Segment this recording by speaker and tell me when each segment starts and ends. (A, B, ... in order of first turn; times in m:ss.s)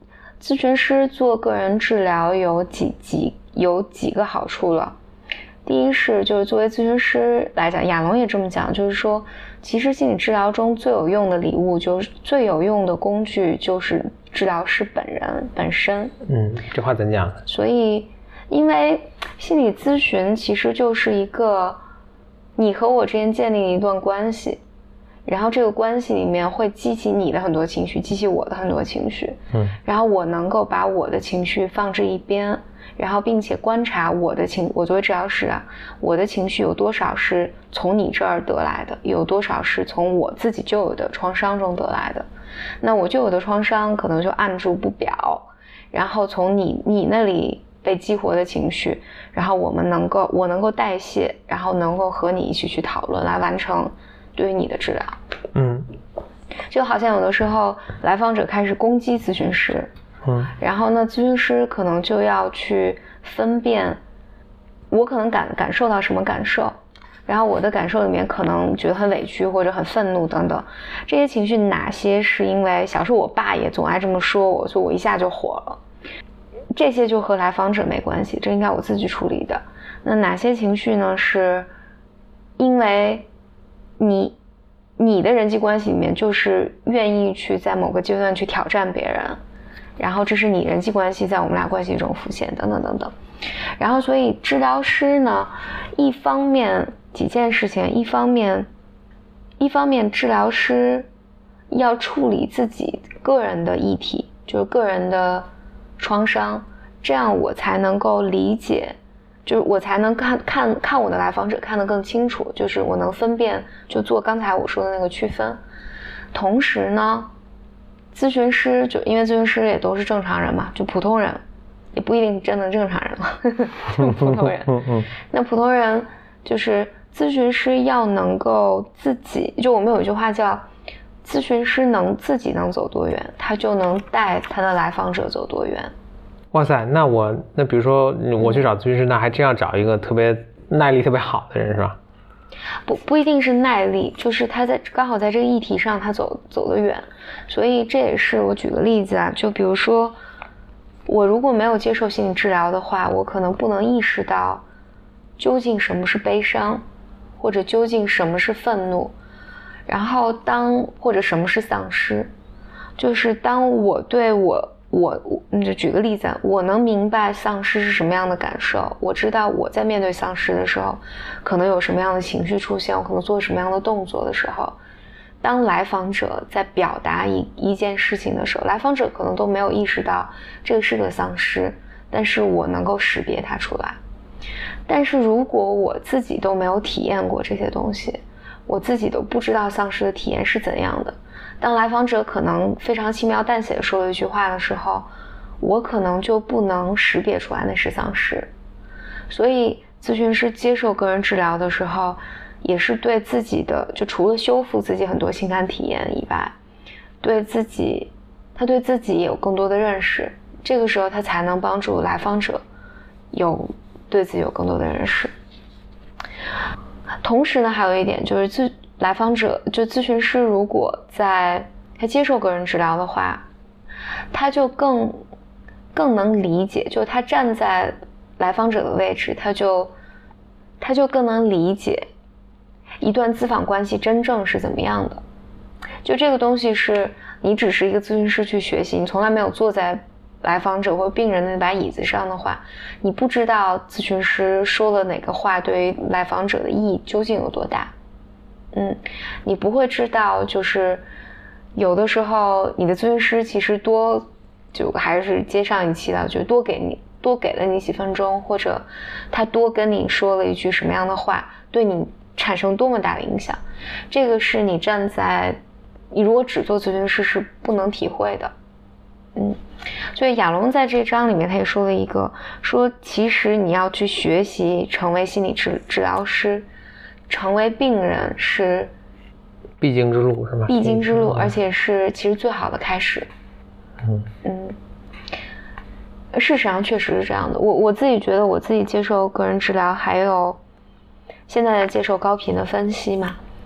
0:00.4-0:05.0 A
0:05.6-0:16.1 A
0:16.3-0:17.4 B
0:17.5-0:21.8 A
0:22.6-0:24.6 A
0:25.3-0:42.3 A
0:42.8-0:55.2 A
0:55.6-0:55.9 B
0:56.7-0:59.9 A
1:00.2-1:00.5 B
1:00.6-1:04.0 A
1:04.9-1:06.7 A
1:07.3-1:15.8 A
1:16.7-1:21.7 A
1:22.6-1:23.3 A
1:24.0-1:24.4 A
1:25.0-1:29.4 A
1:30.0-1:33.1 A
1:33.8-1:38.7 A
1:39.6-1:41.1 A
1:41.7-1:45.5 A
1:46.0-1:55.6 A
1:56.3-1:57.3 A
1:58.1-2:01.4 A
2:01.9-2:04.7 A
2:04.0-2:05.1 B
2:05.3-2:10.6 A
2:11.2-2:15.9 A
2:16.5-2:22.0 B
2:22.9-2:30.2 A
2:31.1-2:34.6 A
2:35.4-2:36.8 A
2:37.4-2:39.1 A
2:39.9-2:42.3 A
2:43.0-2:54.8 A
2:55.4-3:04.0 A
3:04.9-3:15.1 A
3:15.6-3:18.5 A
3:19.3-3:26.6 A
3:27.2-3:32.6 A
3:33.3-3:35.3 A
3:37.2-3:43.5 A
3:44.3-3:45.2 A
3:45.9-3:49.9 A
3:50.8-3:52.1 A
3:53.0-3:55.2 A
3:56.0-4:07.9 A
4:08.7-4:11.0 A
4:11.8-4:25.6 A
4:26.1-4:28.5 A
4:30.2-4:36.7 A
4:37.3-4:38.9 A
4:39.8-4:41.6 B
4:40.7-4:43.3 A
4:44.4-4:44.8 A
4:46.3-4:50.6 A
4:51.5-4:53.4 A